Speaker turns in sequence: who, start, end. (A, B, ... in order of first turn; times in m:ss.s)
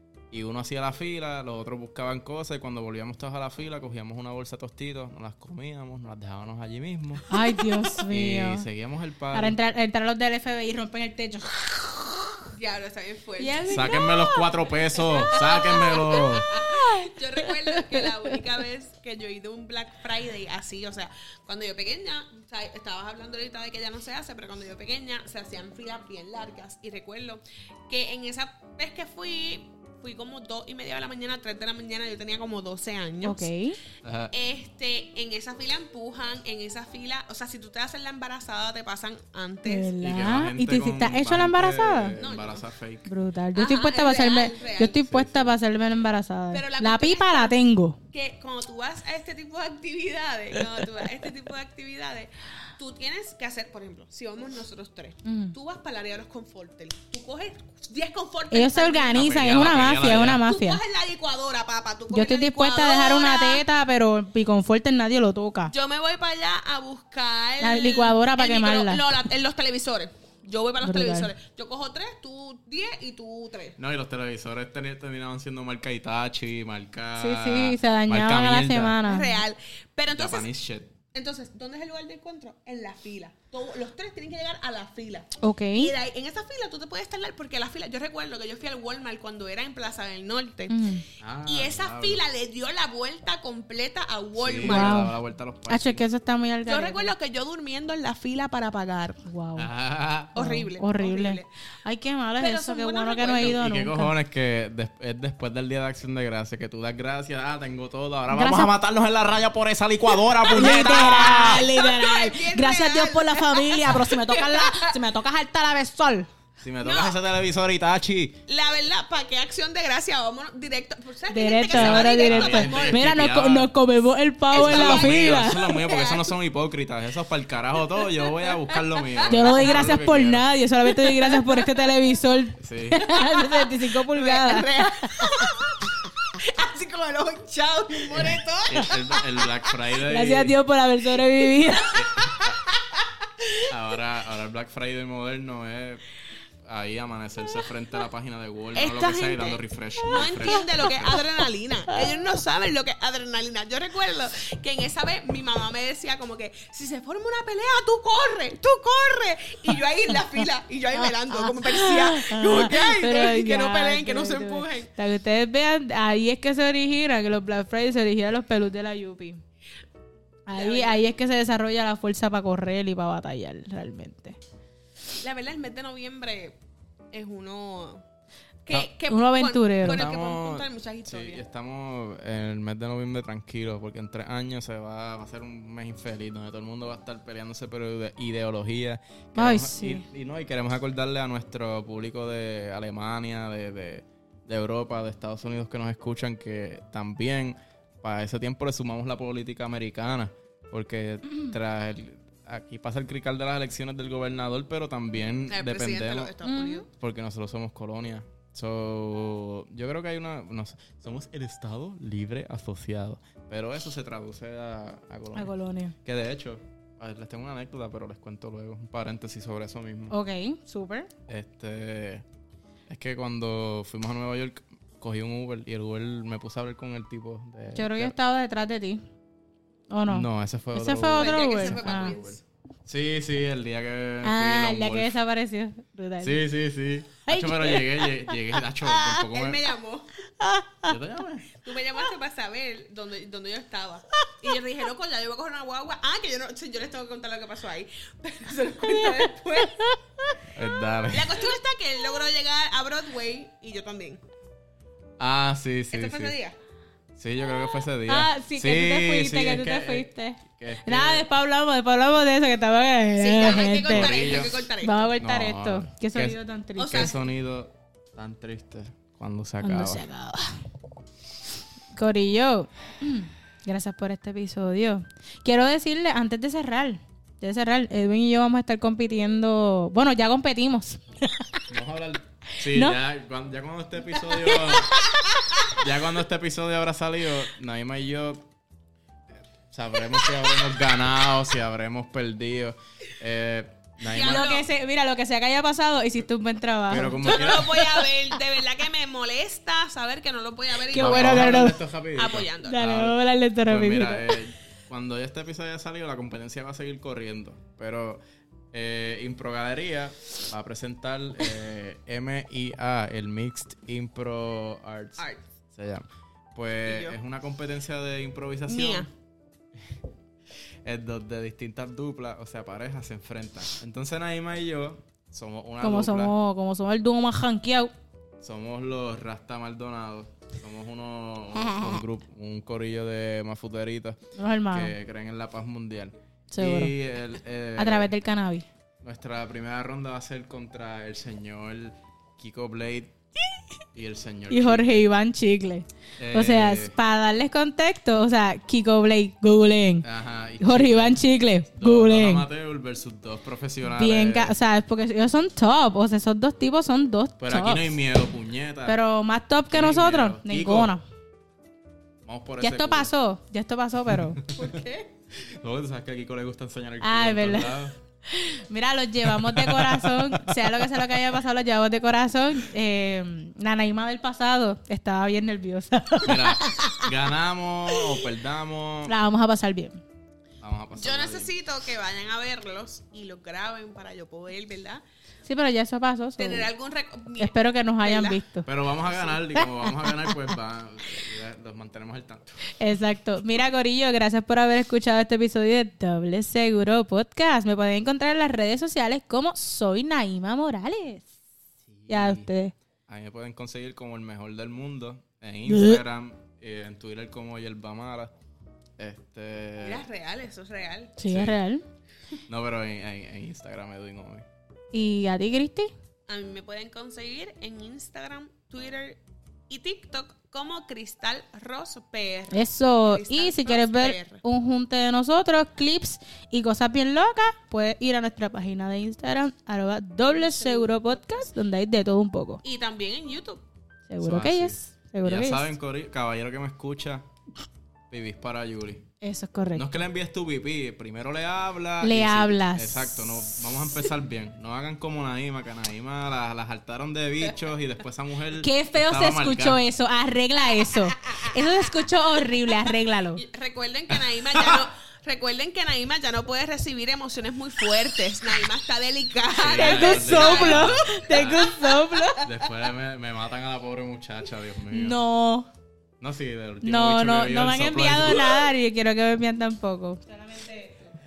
0:00.3-0:09.6 A
0:07.3-0:08.6 B
0:09.3-0:12.4 B
0:12.5-0:13.8 C
0:13.4-0:18.3 B
0:13.7-0:16.5 A
0:15.3-0:33.5 C
0:33.2-0:33.8 B
0:34.0-0:34.3 A
0:34.3-0:39.9 C
0:39.6-0:42.2 B
0:40.0-0:43.1 A
0:42.1-0:42.6 C
0:43.1-0:48.0 B
0:43.5-0:45.0 C
0:44.9-0:45.5 A
0:46.5-0:47.6 C
0:48.1-1:03.6 C
0:55.2-0:55.5 B
0:58.5-1:00.8 B
0:59.1-1:00.4 A
1:02.1-1:05.7 B
1:05.7-1:13.8 C
1:07.6-1:09.0 B
1:10.8-1:11.3 B
1:13.8-1:19.0 A
1:17.2-1:19.4 B
1:19.0-1:20.5 C
1:20.1-1:20.9 A
1:21.1-1:35.0 C
1:25.4-1:25.9 B
1:30.7-1:31.0 B
1:31.2-1:32.2 A
1:34.4-1:36.0 A
1:34.6-1:35.1 B
1:35.7-1:37.1 B
1:36.6-1:39.2 C
1:39.2-1:39.7 B
1:39.6-1:40.4 A
1:40.3-1:41.5 C
1:40.3-1:44.1 B
1:42.4-1:43.6 C
1:43.4-1:51.6 A
1:48.3-1:48.7 B
1:50.4-1:54.9 C
1:50.5-1:56.3 B
1:56.6-1:58.4 A
1:56.8-1:57.2 C
1:58.5-2:03.0 C
2:01.3-2:05.7 B
2:01.7-2:03.7 A
2:04.5-2:06.3 C
2:04.5-2:10.4 A
2:08.2-2:09.7 C
2:09.3-2:15.2 B
2:11.0-2:11.6 C
2:12.6-2:13.0 A
2:13.2-2:19.5 C
2:18.1-2:20.6 A
2:20.0-2:21.9 B
2:21.6-2:23.0 C
2:21.9-2:22.6 A
2:23.7-2:26.0 A
2:26.6-2:31.2 A
2:28.7-2:44.9 C
2:41.0-2:49.4 B
2:50.5-2:54.4 B
2:50.5-2:51.0 C
2:55.2-2:56.6 C
2:57.1-2:58.0 C
2:58.6-3:01.4 C
2:59.1-3:00.1 B
2:59.8-3:26.4 A
3:09.3-3:10.0 B
3:25.5-3:26.9 C
3:26.4-3:26.8 B
3:26.9-3:35.5 A
3:35.3-3:35.9 B
3:36.0-3:40.1 A
3:40.1-3:41.1 B
3:41.3-3:42.2 A
3:42.9-3:48.1 A
3:47.7-3:49.0 B
3:49.9-3:52.1 B
3:50.1-3:55.1 A
3:51.1-3:52.4 C
3:54.2-3:56.4 B
3:56.2-3:59.7 A
3:57.2-3:58.6 B
3:59.1-4:00.1 C
4:00.4-4:00.9 B
4:00.9-4:01.6 A
4:01.6-4:09.9 C
4:08.9-4:10.3 B
4:10.5-4:11.4 A
4:11.1-4:14.2 C
4:15.2-4:16.3 A
4:15.9-4:16.6 C
4:17.2-4:21.3 A
4:18.1-4:27.1 B
4:23.2-4:25.1 C
4:23.5-4:24.6 A
4:25.1-4:26.4 A
4:26.8-4:27.2 C
4:26.9-4:30.0 A
4:29.6-4:30.6 B
4:31.9-4:41.6 B
4:41.7-4:45.0 A
4:42.6-4:43.0 B
4:44.5-4:45.4 B
4:45.7-4:48.5 A
4:49.7-4:54.5 A
4:54.1-4:54.7 C
4:54.2-4:58.1 B
4:56.9-4:57.8 A
4:56.9-5:02.9 C
5:00.9-5:01.8 B
5:00.9-5:19.1 A
5:02.7-5:04.4 B
5:16.8-5:17.2 C
5:18.7-5:19.1 C
5:20.8-5:26.3 A
5:25.8-5:27.9 B
5:28.4-5:34.2 A
5:34.4-5:34.9 B
5:34.7-5:38.1 A
5:36.5-5:36.9 B
5:37.8-5:38.6 B
5:39.0-5:43.2 A
5:43.9-5:45.0 A
5:44.5-5:50.0 B
5:46.2-5:46.9 A
5:50.0-5:54.5 A
5:50.6-5:52.4 B
5:54.0-5:58.0 B
5:57.4-5:59.0 A
5:58.8-6:01.0 B
5:59.7-6:00.9 A
6:02.2-6:03.1 A
6:02.6-6:04.4 B
6:04.1-6:08.0 A
6:04.5-6:05.1 C
6:07.0-6:07.7 B
6:08.3-6:17.1 B
6:09.2-6:11.2 A
6:16.2-6:19.2 A
6:19.0-6:20.0 B
6:20.6-6:21.5 A
6:20.9-6:25.0 C
6:25.4-6:26.7 B
6:26.4-6:28.4 C
6:27.4-6:28.7 B
6:28.6-6:32.6 A
6:29.6-6:30.3 B
6:32.8-6:41.3 B
6:41.9-6:42.5 A
6:42.1-6:42.7 B
6:43.1-6:48.3 A
6:45.7-6:46.0 B
6:49.0-6:50.0 A
6:49.8-6:51.2 C
6:51.2-6:51.8 B
6:51.2-6:51.6 A
6:52.5-6:54.4 A
6:54.9-6:55.9 B
6:56.3-7:04.4 C
7:02.5-7:12.6 B
7:12.6-7:13.6 C
7:14.1-7:15.7 B
7:14.2-7:17.2 A
7:18.1-7:19.1 A
7:19.2-7:19.9 B
7:19.7-7:29.8 A
7:22.0-7:23.5 B
7:28.6-7:33.4 B
7:33.4-7:42.3 C
7:34.1-7:34.9 A
7:39.6-7:41.8 A
7:39.8-7:42.4 B
7:42.4-7:45.2 A
7:44.9-7:45.7 B
7:46.2-7:48.7 A
7:46.8-7:51.1 B